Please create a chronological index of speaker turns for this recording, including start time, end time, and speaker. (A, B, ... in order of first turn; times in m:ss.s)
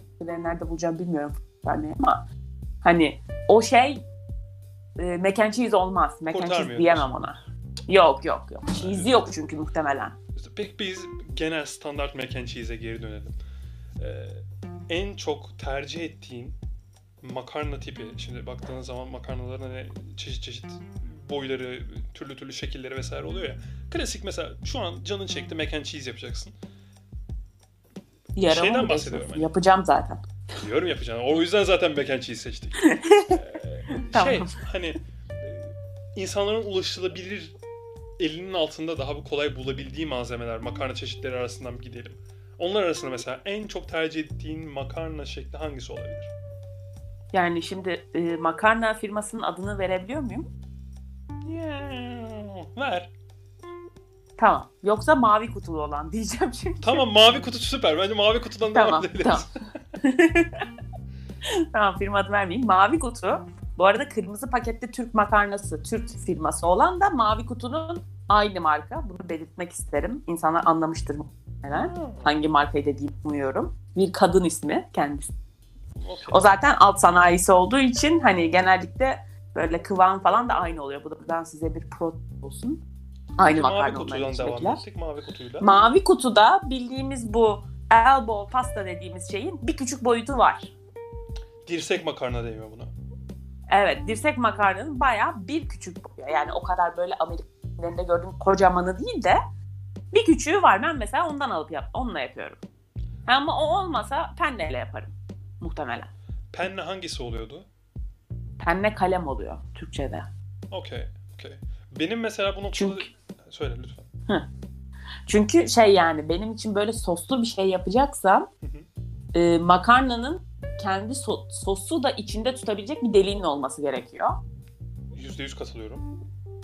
0:00.2-0:02.2 A
0:02.8-0:04.0 A
0:05.0-0:10.1 A
0:06.3-0:07.1 B
0:08.7-0:09.2 B
0:10.3-0:13.4 B
0:14.0-0:16.6 B
0:17.2-0:26.6 B
0:28.3-0:30.2 A
0:28.4-0:29.5 B
0:30.6-0:37.5 B
0:32.8-0:34.5 A
0:38.2-0:46.3 B
0:47.3-0:50.5 A
0:51.4-0:53.1 B
0:54.4-0:57.0 A
0:56.8-0:59.5 B
0:58.7-0:59.5 A
1:00.0-1:00.7 A
1:01.4-1:15.3 A
1:11.7-1:12.3 B
1:15.9-1:16.4 B
1:16.3-1:22.8 A
1:23.4-1:24.8 A
1:23.4-1:25.7 B
1:25.6-1:30.7 A
1:31.6-1:32.9 B
1:33.7-1:39.4 A
1:40.1-1:42.6 A
1:43.3-1:46.1 A
1:46.5-1:47.7 B
1:48.6-1:50.3 A
1:50.7-1:54.1 B
1:52.7-1:53.1 A
1:55.3-1:58.5 A
1:59.3-2:04.4 A
2:05.1-2:06.0 B